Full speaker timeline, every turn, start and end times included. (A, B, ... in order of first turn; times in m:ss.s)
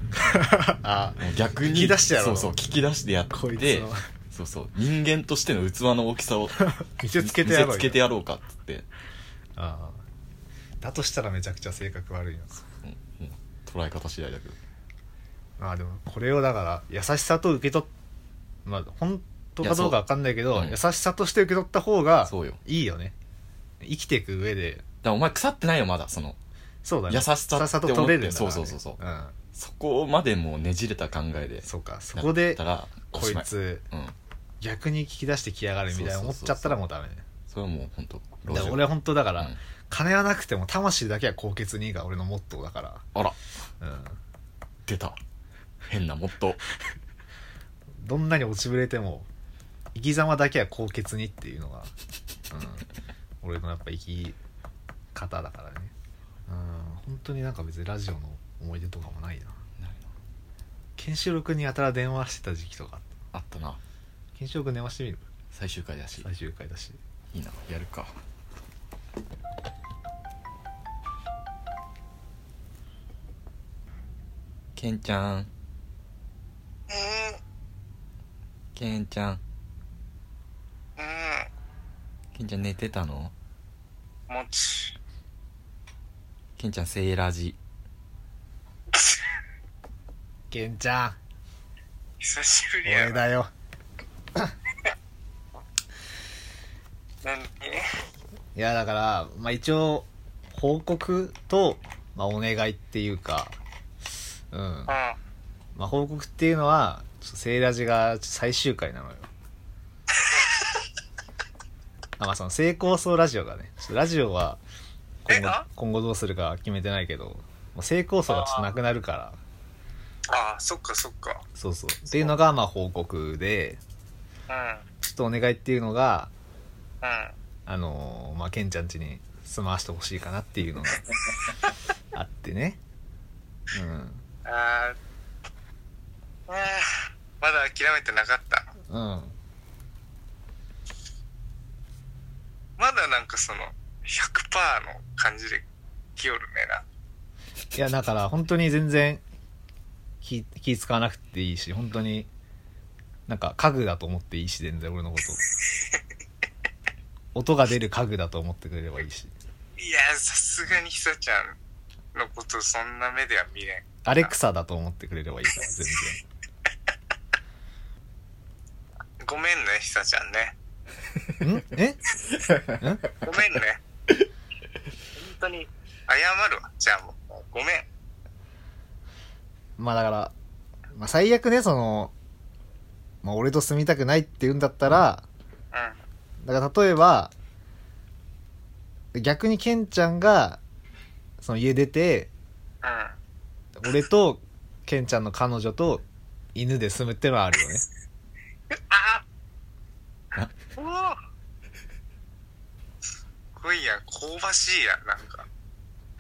0:00.2-0:02.6 A
0:01.2-0:06.6 B
0:03.3-0:04.1 A
0:06.6-0:08.0 A
0:07.2-0:08.9 B
0:09.6-0:10.0 A
0:10.8-0:12.6 A
0:12.8-0:14.6 B
0:15.6-0:17.9 A
0:18.7-0:23.2 A
0:19.6-0:20.0 B
0:22.2-0:22.6 B
0:23.8-0:24.8 A
0:25.0-0:26.4 B
0:26.8-0:29.4 A
0:27.1-0:29.0 B
0:29.5-0:34.2 B
0:31.6-0:33.8 A
0:34.6-0:37.2 A
0:35.9-0:36.8 B
0:37.5-0:39.6 B
0:38.5-0:43.0 A
0:43.8-0:44.2 A
0:44.9-0:45.2 B
0:45.9-0:46.6 B
0:48.0-0:49.3 A
0:49.9-0:51.9 A
0:52.5-0:52.9 A
0:53.4-0:54.4 A
0:55.1-0:55.9 A
0:56.5-0:59.6 A
0:59.8-1:00.1 B
1:01.0-1:03.1 A
1:03.3-1:03.8 B
1:04.4-1:05.2 A
1:05.5-1:06.3 B
1:06.2-1:07.0 A
1:07.3-1:08.1 B
1:14.8-1:15.5 B
1:16.9-1:17.4 C
1:18.8-1:19.4 B
1:21.0-1:21.5 C
1:22.3-1:23.3 B
1:24.3-1:25.0 C
1:26.6-1:27.6 B
1:30.5-1:31.2 A
1:32.2-1:33.2 C
1:32.8-1:33.5 A
1:37.2-1:38.0 C
1:38.5-1:43.6 A
1:44.5-1:44.9 A
1:44.9-1:45.2 C
1:45.8-1:49.3 A
1:50.2-1:50.7 C
1:52.2-1:54.6 A
1:55.2-1:59.4 A
1:55.3-1:55.6 C
1:58.3-1:58.7 C
2:00.3-2:01.4 C
2:01.5-2:03.8 A
2:04.5-2:04.8 C
2:05.0-2:06.3 A
2:07.0-2:07.3 C
2:07.7-2:11.1 A
2:12.1-2:12.8 A
2:13.7-2:14.2 A
2:14.4-2:15.0 C
2:16.5-2:18.7 C
2:18.9-2:19.4 A
2:22.8-2:25.6 C
2:26.2-2:26.8 C
2:27.7-2:29.2 A
2:30.2-2:32.3 A
2:33.3-2:35.4 A
2:37.4-2:39.3 A
2:39.8-2:41.6 C
2:42.1-2:44.3 C
2:44.0-2:46.2 A
2:49.2-2:50.5 C
2:51.4-2:52.0 A
2:52.5-2:52.8 B
2:52.8-2:53.1 A
2:53.2-2:53.8 C
2:55.2-2:57.9 C
2:59.8-3:00.3 A
3:01.0-3:02.1 A
3:03.2-3:05.2 A
3:05.7-3:06.0 C
3:06.4-3:07.3 A
3:09.2-3:10.6 A
3:11.4-3:12.3 A
3:12.8-3:13.2 C
3:13.8-3:16.0 A
3:16.5-3:17.8 A
3:18.7-3:19.2 C
3:20.8-3:21.2 C
3:23.6-3:25.4 C